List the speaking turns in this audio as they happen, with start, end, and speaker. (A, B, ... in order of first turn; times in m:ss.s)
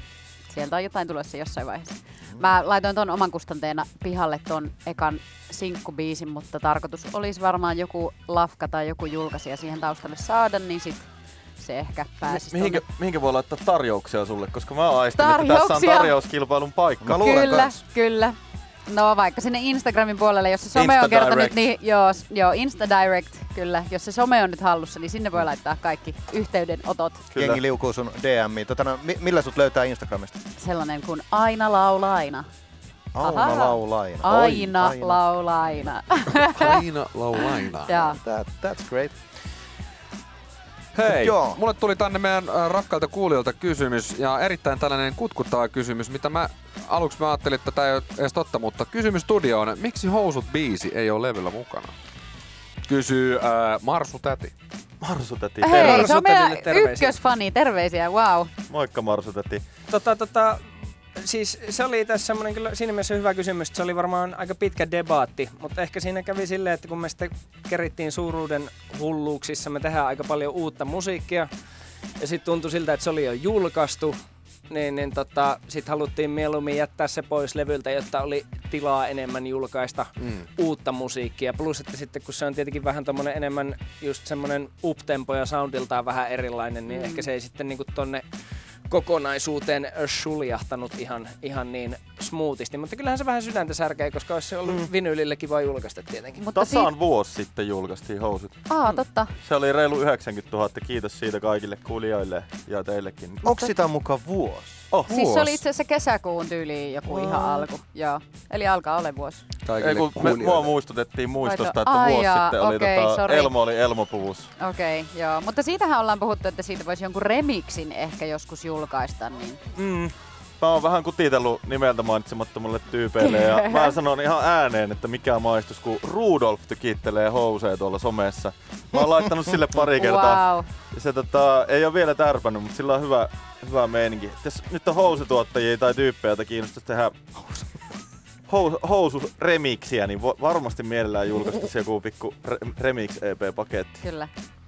0:00.5-0:11.1 A
0:11.6-0:12.8 A
0:12.2-0:17.3 B
0:15.2-0:16.1 A
0:17.0-0:17.8 C
0:17.1-0:18.4 A
0:18.9-0:27.2 A
0:20.8-0:21.6 B
0:27.3-0:27.6 B
0:27.4-0:30.4 C
0:30.6-0:32.5 A
0:33.1-0:35.2 C
0:33.2-0:36.8 A
0:36.3-0:37.9 D
0:37.9-0:38.2 A
0:38.2-0:39.2 C
0:41.0-0:51.9 D
0:41.1-0:41.6 C
0:52.9-0:54.5 D
0:55.0-0:56.1 B
0:55.6-0:58.5 A
0:55.7-0:57.1 E
0:58.7-0:59.6 B
0:59.9-1:11.5 E
1:12.2-1:14.2 E
1:14.7-1:28.2 E
1:26.9-1:27.3 A
1:28.9-1:36.4 E
1:36.4-1:36.9 A
1:36.6-1:38.7 B
1:38.7-1:39.3 A
1:39.4-1:43.5 B
1:43.4-1:44.9 C
1:44.9-1:45.4 B
1:45.1-1:49.4 A
1:45.1-1:45.5 D
1:49.6-1:50.7 D
1:49.8-1:54.5 B
1:51.4-1:53.5 A
1:54.6-1:59.6 A
1:59.8-2:17.2 B
2:03.2-2:04.0 A
2:10.0-2:10.7 A
2:18.5-2:24.0 B
2:24.0-2:24.3 A